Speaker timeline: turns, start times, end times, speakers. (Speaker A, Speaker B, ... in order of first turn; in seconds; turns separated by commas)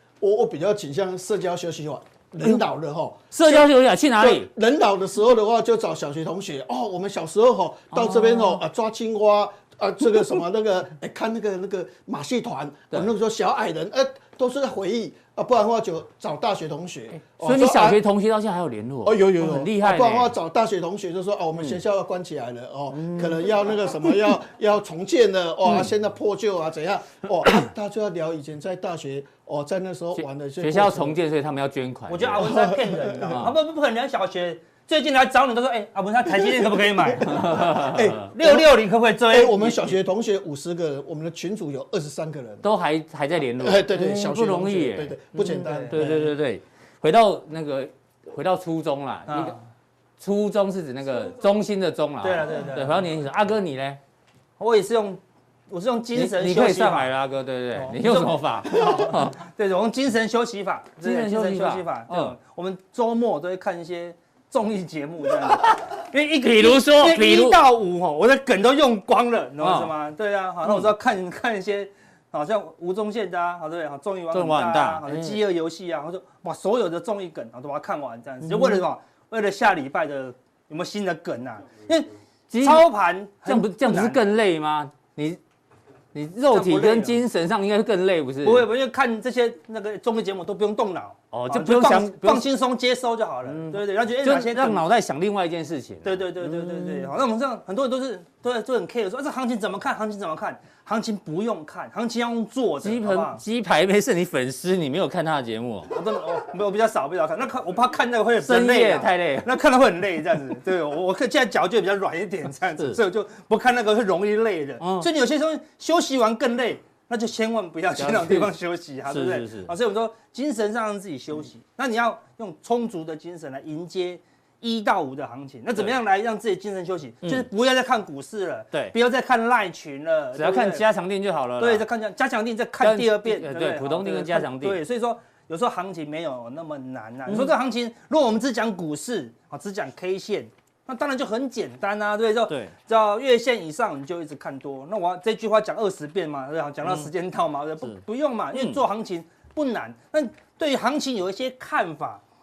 Speaker A: 0.2-18.0, Speaker B: 3.3-4.5, Speaker B: 7.9-8.6, Speaker B: 17.3-20.3, Speaker A: 19.1-31.2, Speaker B: 22.9-23.5, Speaker B: 30.2-32.6, Speaker C: 32.1-40.0, Speaker A: 32.4-33.4, Speaker B: 33.3-33.5, Speaker A: 36.4-38.7, Speaker B: 37.3-38.3, Speaker A: 39.3-42.7, Speaker B: 42.6-49.5, Speaker A: 43.6-46.3, Speaker C: 45.4-46.1, Speaker C: 49.3-49.6, Speaker B: 50.2-54.0, Speaker C: 52.2-53.0, Speaker C: 54.6-57.1, Speaker B: 56.1-59.4, Speaker C: 57.8-82.1, Speaker B: 61.0-62.4, Speaker B: 65.5-67.6, Speaker B: 69.6-69.9, Speaker B: 70.6-70.9, Speaker B: 74.3-75.4, Speaker B: 78.4-78.8, Speaker B: 82.5-85.4, Speaker C: 82.6-84.2, Speaker B: 86.1-88.7, Speaker C: 86.5-87.2, Speaker C: 88.4-94.8, Speaker B: 91.3-92.5, Speaker B: 93.5-97.1, Speaker C: 96.0-103.4, Speaker B: 102.8-105.9, Speaker C: 105.9-130.8, Speaker B: 108.4-109.5, Speaker B: 114.8-115.1, Speaker B: 118.0-118.5, Speaker B: 119.1-119.7, Speaker B: 130.3-131.9, Speaker C: 131.6-152.2, Speaker B: 132.8-134.8, Speaker B: 137.3-137.5, Speaker B: 142.5-142.7, Speaker B: 146.8-147.1, Speaker B: 148.5-148.8